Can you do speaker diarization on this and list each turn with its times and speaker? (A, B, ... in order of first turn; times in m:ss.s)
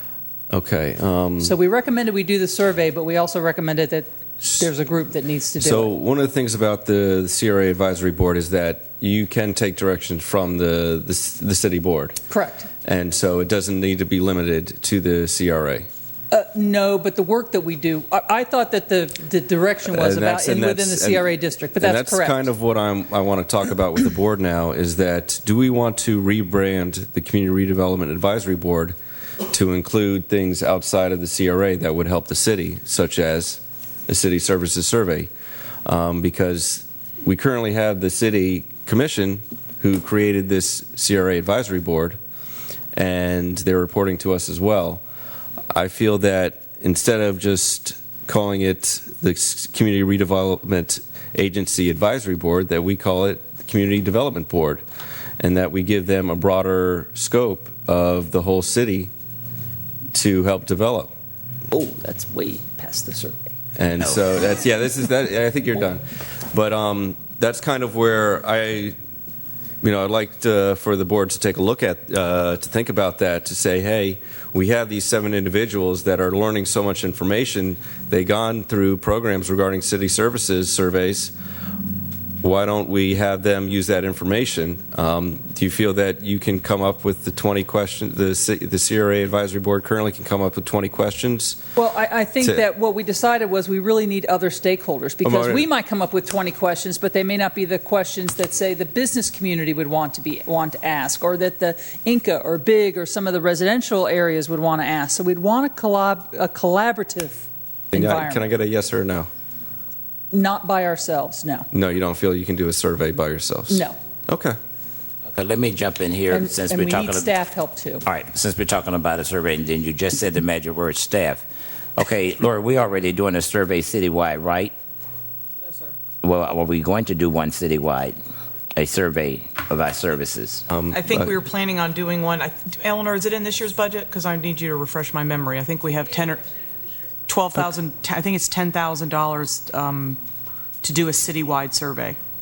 0:00.5-0:01.6 A
0:01.4-0:05.9 B
0:05.6-0:12.2 A
0:12.3-0:12.7 B
0:12.8-0:15.9 A
0:16.3-0:22.4 B
0:19.9-0:29.0 A
0:29.5-0:35.3 A
0:35.8-0:42.2 A
0:43.0-0:45.0 A
0:45.7-0:54.8 A
0:55.4-0:59.1 A
1:00.1-1:01.1 A
1:01.7-1:03.5 B
1:03.8-1:09.0 A
1:09.8-1:21.3 A
1:22.4-1:31.6 A
1:31.8-1:48.4 B
1:35.2-1:35.6 A
1:47.9-1:49.3 A
1:50.3-1:51.7 B
1:51.7-1:54.6 A
1:53.7-1:54.0 B
1:55.3-1:57.3 C
1:56.3-1:58.0 B
1:58.1-2:01.4 C
2:02.0-2:04.7 C
2:06.2-2:08.2 C
2:08.7-2:10.6 C
2:10.7-2:11.3 A
2:10.9-2:16.4 D
2:17.3-2:20.2 D
2:20.8-2:22.2 D